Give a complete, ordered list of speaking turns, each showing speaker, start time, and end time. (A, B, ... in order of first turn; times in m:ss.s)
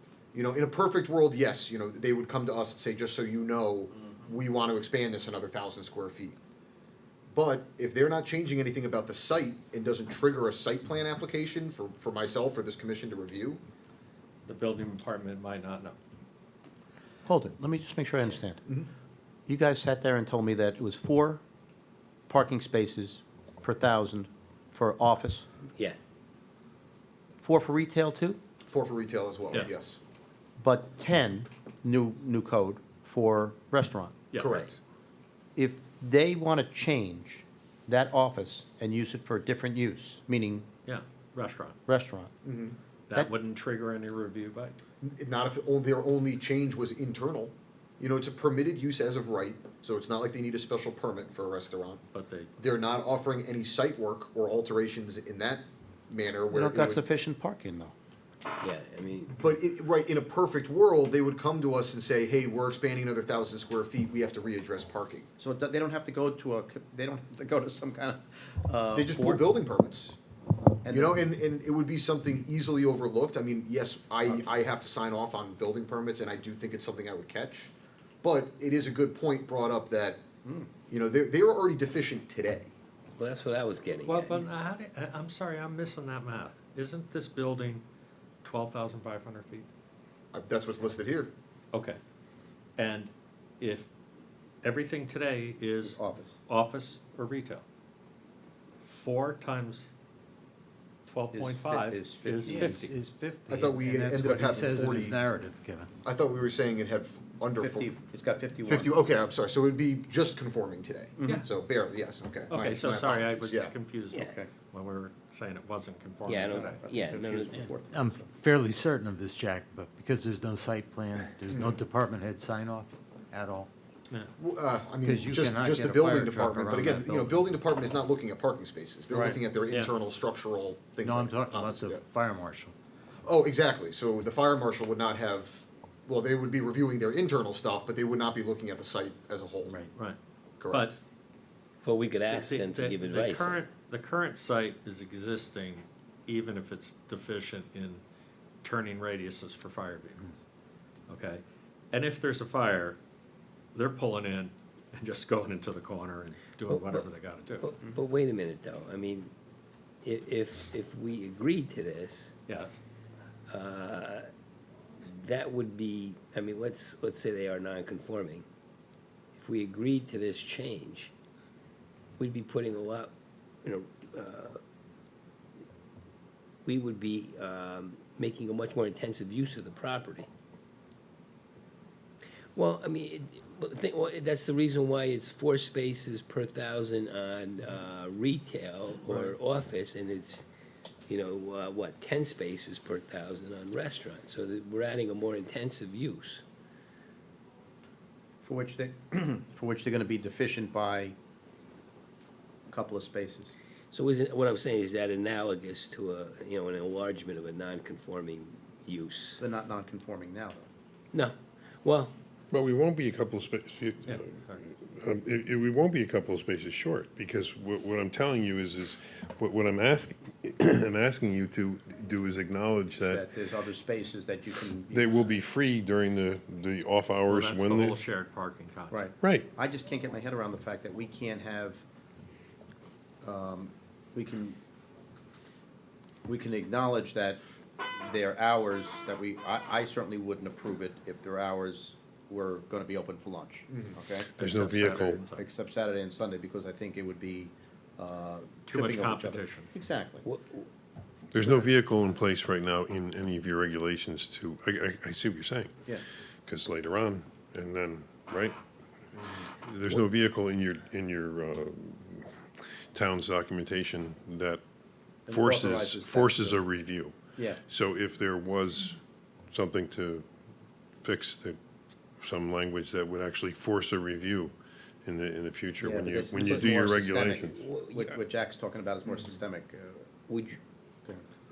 0:00.3-0:06.4 A
0:07.3-0:13.6 A
0:14.5-0:16.0 B
0:17.3-0:18.6 C
0:19.5-0:21.4 C
0:22.3-0:25.5 C
0:27.4-0:28.4 C
0:28.6-0:30.0 A
0:30.6-0:34.2 C
0:34.4-0:34.8 A
0:35.6-0:40.7 C
0:40.9-0:41.8 B
0:41.9-0:42.3 C
0:42.4-0:42.8 A
0:43.1-0:44.8 B
0:45.0-0:52.0 A
0:52.1-0:52.5 B
0:52.6-0:57.0 A
0:56.5-0:57.9 C
0:58.6-0:59.4 D
0:59.4-1:05.3 A
1:05.4-1:09.5 C
1:08.9-1:10.2 A
1:10.8-1:11.2 C
1:10.9-1:17.7 A
1:18.2-1:20.2 A
1:20.9-1:22.7 A
1:23.2-1:24.5 D
1:24.1-1:27.8 B
1:28.4-1:29.7 B
1:30.3-1:31.3 A
1:31.7-1:32.0 B
1:32.8-1:33.9 B
1:34.6-1:37.6 B
1:35.8-1:36.4 C
1:38.9-1:39.9 B
1:41.1-1:42.8 B
1:41.3-1:42.9 C
1:42.5-1:45.9 E
1:43.5-1:45.2 A
1:46.0-1:48.0 A
1:47.6-1:49.0 C
1:48.6-1:53.8 A
1:51.2-1:51.5 C
1:52.5-1:56.8 B
1:56.3-1:57.7 D
1:56.3-1:58.3 C
1:57.9-2:03.7 E
2:01.5-2:01.8 A
2:04.4-2:12.0 A
2:05.0-2:07.4 E
2:09.1-2:09.4 C
2:11.0-2:12.7 E
2:13.2-2:19.8 A
2:19.6-2:19.9 E
2:20.6-2:20.9 A
2:20.7-2:21.0 B
2:21.8-2:23.6 D
2:22.3-2:28.0 B
2:28.6-2:30.4 B
2:31.1-2:33.0 B
2:33.8-2:37.7 B
2:36.7-2:37.1 D
2:37.6-2:39.3 D
2:40.0-2:42.4 D
2:42.5-2:42.8 B
2:43.5-2:44.3 D
2:45.0-2:48.4 D
2:49.4-2:51.1 D
2:52.2-2:54.6 D
2:56.7-3:00.3 D
3:02.6-3:10.4 D
3:09.1-3:09.4 C
3:11.1-3:16.4 D
3:18.4-3:21.2 C
3:22.7-3:23.6 C
3:23.9-3:29.4 D
3:29.4-3:30.7 C
3:31.1-3:32.1 D
3:32.5-3:43.3 F
3:34.0-3:34.6 B
3:43.0-3:45.4 C
3:44.9-3:48.0 F
3:47.3-3:49.1 B
3:48.9-3:51.8 C
3:49.2-3:49.5 F
3:53.2-3:54.6 C
3:56.3-4:04.3 C
4:03.7-4:04.0 A
4:04.4-4:05.4 B
4:04.4-4:05.3 F
4:05.3-4:10.3 C
4:08.7-4:09.7 B
4:10.2-4:10.7 D
4:11.3-4:15.8 F
4:11.3-4:11.7 D
4:16.5-4:18.6 F
4:19.5-4:24.6 F
4:25.3-4:26.6 C
4:25.3-4:29.0 F
4:29.5-4:30.3 F
4:31.0-4:31.6 F
4:32.2-4:37.6 F
4:35.8-4:40.1 C
4:36.5-4:36.8 D
4:37.6-4:38.3 D
4:40.3-4:40.6 D